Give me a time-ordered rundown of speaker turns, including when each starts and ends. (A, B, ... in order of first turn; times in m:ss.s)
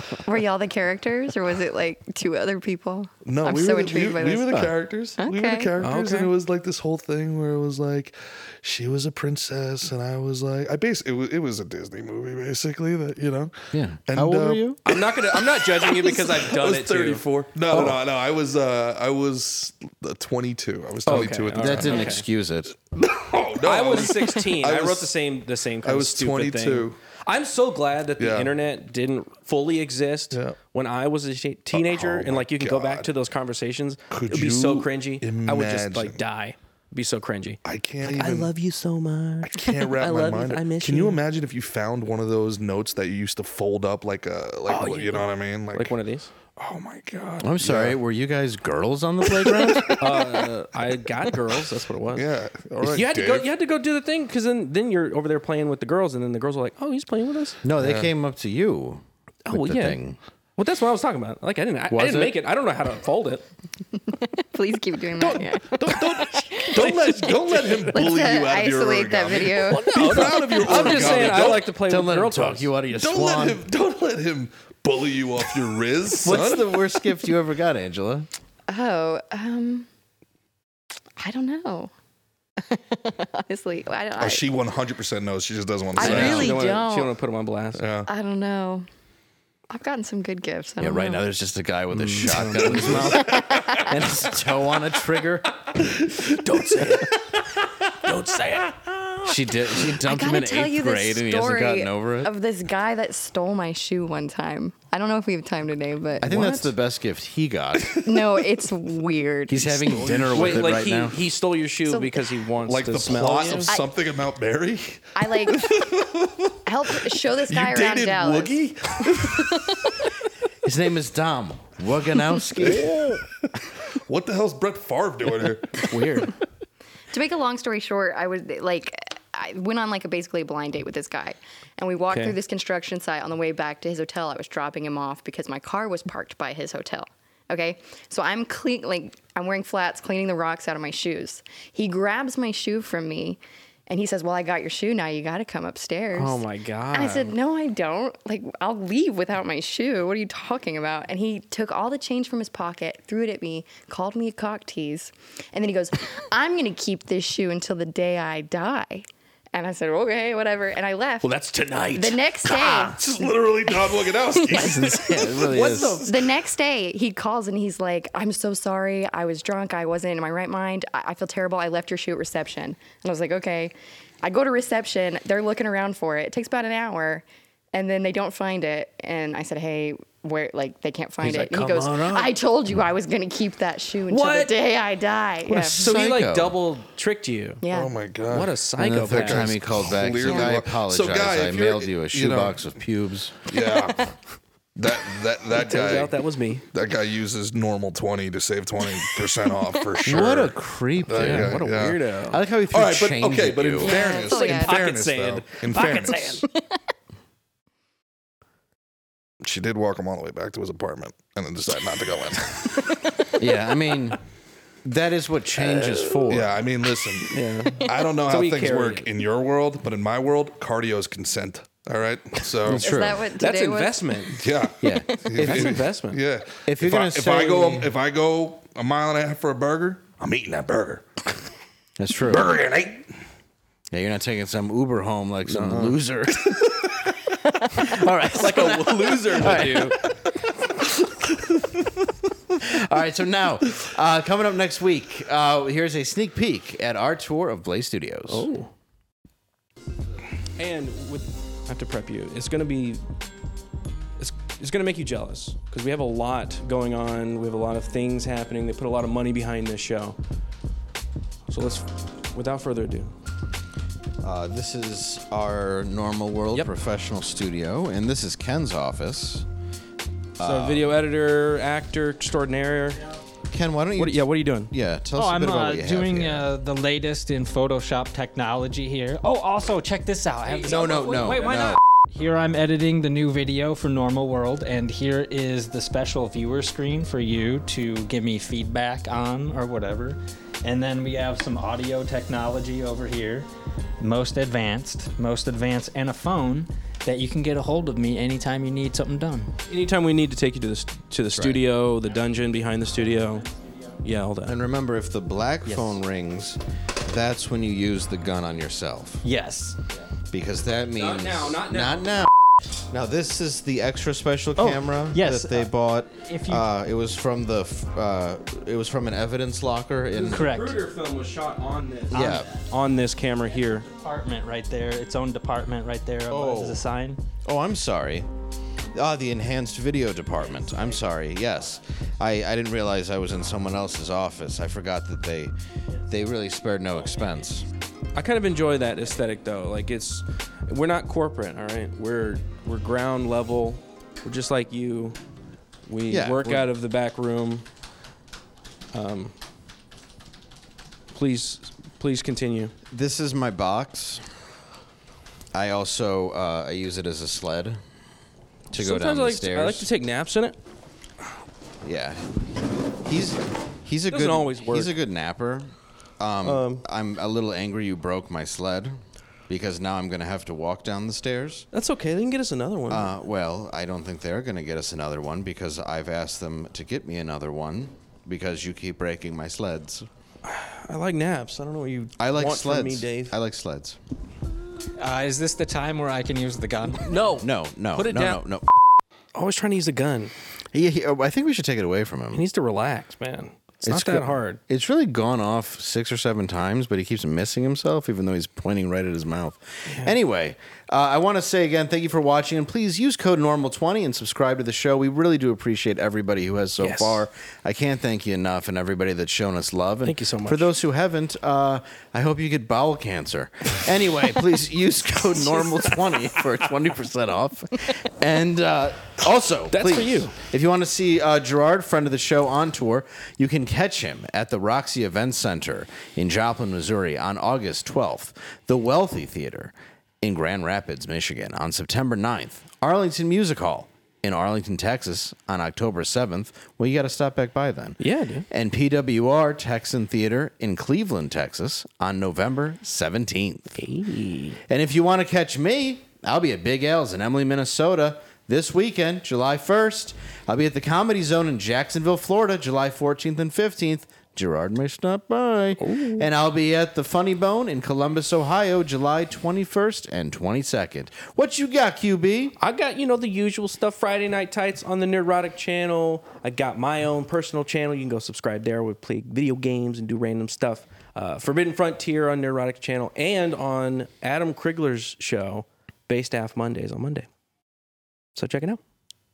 0:00.2-0:04.7 A
0:03.2-0:22.1 B
0:05.2-0:05.7 A
0:05.8-0:06.3 C
0:13.7-0:14.8 D
0:14.8-0:18.0 C
0:21.0-0:22.2 C
0:21.6-0:22.7 D
0:22.9-0:25.1 B
0:23.6-0:41.2 C
0:25.8-0:27.0 B
0:28.2-0:28.5 B
0:31.7-0:33.1 B
0:34.1-0:36.2 B
0:37.6-0:38.5 B
0:39.4-0:46.0 B
0:44.7-0:46.3 C
0:46.6-0:48.0 B
0:47.4-0:50.1 D
0:50.0-0:52.3 C
0:52.1-0:53.5 B
0:52.8-0:57.6 C
0:57.6-1:00.2 D
0:57.8-0:58.1 B
0:59.5-1:00.0 C
1:00.6-1:03.4 C
1:01.9-1:02.4 D
1:04.1-1:10.4 A
1:05.2-1:11.7 B
1:09.9-1:12.7 C
1:10.7-1:13.6 D
1:12.9-1:16.8 B
1:16.2-1:18.3 D
1:18.7-1:19.9 A
1:21.2-1:21.9 A
1:22.6-1:24.5 A
1:24.2-1:26.6 B
1:26.0-1:27.1 A
1:26.0-1:26.6 D
1:26.0-1:27.8 C
1:27.8-1:28.1 B
1:28.1-1:28.9 A
1:29.7-1:31.3 A
1:30.8-1:35.6 D
1:31.9-1:33.1 C
1:32.3-1:33.8 B
1:33.0-1:34.2 A
1:35.8-1:37.2 B
1:36.3-1:37.1 C
1:38.0-1:39.2 C
1:39.2-1:42.3 D
1:40.0-1:46.6 A
1:46.2-1:48.0 D
1:46.3-1:46.6 C
1:47.9-1:50.0 A
1:49.5-1:51.2 D
1:50.0-1:53.7 C
1:50.1-1:50.6 B
1:51.8-1:52.2 A
1:52.7-1:59.8 B
1:53.7-1:53.9 A
1:55.2-1:55.9 A
1:56.6-1:59.7 A
2:00.6-2:03.0 D
2:02.6-2:03.2 B
2:04.0-2:06.3 B
2:05.8-2:06.3 C
2:07.1-2:41.3 A
2:12.1-2:12.4 C
2:26.1-2:27.3 C
2:41.2-2:43.0 C
2:41.9-2:44.8 A
2:42.9-2:45.5 B
2:44.5-2:46.1 D
2:45.3-2:46.2 C
2:46.0-3:05.9 A
3:01.2-3:02.3 D
3:04.1-3:04.6 C
3:05.4-3:07.6 C
3:05.7-3:06.6 D
3:07.6-3:07.9 A
3:07.7-3:08.5 B
3:08.3-3:09.8 C
3:08.8-3:13.3 D
3:09.1-3:12.6 B
3:13.4-3:14.1 B
3:13.8-3:14.0 A
3:14.8-3:16.2 B
3:15.5-3:16.6 C
3:16.7-3:22.0 B
3:20.0-3:24.0 D
3:21.2-3:22.4 C
3:22.7-3:26.4 B
3:23.8-3:24.8 A
3:24.0-3:26.4 C
3:26.4-3:26.8 A
3:29.4-3:32.9 B
3:33.4-3:34.2 D
3:34.8-3:36.6 D
3:36.3-3:42.9 B
3:37.3-3:39.1 C
3:42.6-3:43.3 D
3:42.7-3:44.4 A
3:43.4-3:44.4 C
3:44.4-3:51.1 B
3:44.8-3:45.8 D
3:45.4-3:46.2 C
3:46.6-3:47.9 D
3:52.0-3:52.5 D
3:52.3-3:53.0 B
3:53.9-3:57.0 D
3:55.5-3:56.0 C
3:56.4-3:56.7 B
3:57.7-4:00.0 D
3:58.2-4:00.0 C
4:02.6-4:08.5 D
4:08.3-4:08.7 C
4:10.6-4:13.0 C
4:14.2-4:20.2 C
4:21.5-4:23.1 C
4:24.2-4:29.4 D
4:30.4-4:31.0 D
4:30.4-4:33.0 C
4:33.5-4:36.5 D
4:33.9-4:34.7 C
4:35.2-4:53.5 E
4:40.5-4:41.5 C
4:40.6-4:41.8 D
4:54.0-4:59.5 E
4:59.7-5:03.4 C
5:01.3-5:01.6 D
5:04.0-5:04.5 C
5:04.4-5:09.2 D
5:05.6-5:05.9 C
5:09.2-5:09.8 E
5:10.3-5:12.3 D
5:10.9-5:12.1 C
5:12.9-5:20.5 D
5:14.6-5:16.6 E
5:20.1-5:23.8 C
5:20.2-5:20.8 E
5:22.1-5:22.5 D
5:22.2-5:22.5 E
5:23.8-5:27.2 E
5:26.3-5:26.8 D
5:27.4-5:28.3 D
5:28.9-5:35.5 D
5:36.1-5:37.7 D
5:38.1-5:45.2 C
5:45.9-5:47.6 C
5:46.1-5:46.7 D
5:48.9-5:49.3 C
5:51.1-5:52.7 C
5:52.9-5:54.3 D
5:55.5-5:57.8 D
5:58.7-5:59.9 D
5:58.7-6:00.6 C
6:01.8-6:02.2 D
6:03.0-6:09.0 D
6:04.1-6:04.9 C
6:06.4-6:06.8 C
6:09.5-6:11.6 D
6:11.7-6:13.1 C
6:12.9-6:20.1 D
6:20.4-6:23.4 C
6:22.2-6:24.0 D
6:25.0-6:27.1 E
6:27.0-6:28.4 C
6:27.4-6:28.6 D
6:29.3-6:30.3 C
6:30.7-6:32.4 D
6:32.3-6:34.6 C
6:33.8-7:23.8 D
6:39.9-6:40.1 C
6:46.8-6:47.2 C
6:50.0-6:50.7 C
6:59.7-7:00.3 C
7:18.0-7:18.4 C
7:23.8-7:24.6 C
7:24.7-7:42.5 D
7:35.8-7:36.3 C
7:42.6-7:57.3 C
7:58.3-7:58.8 C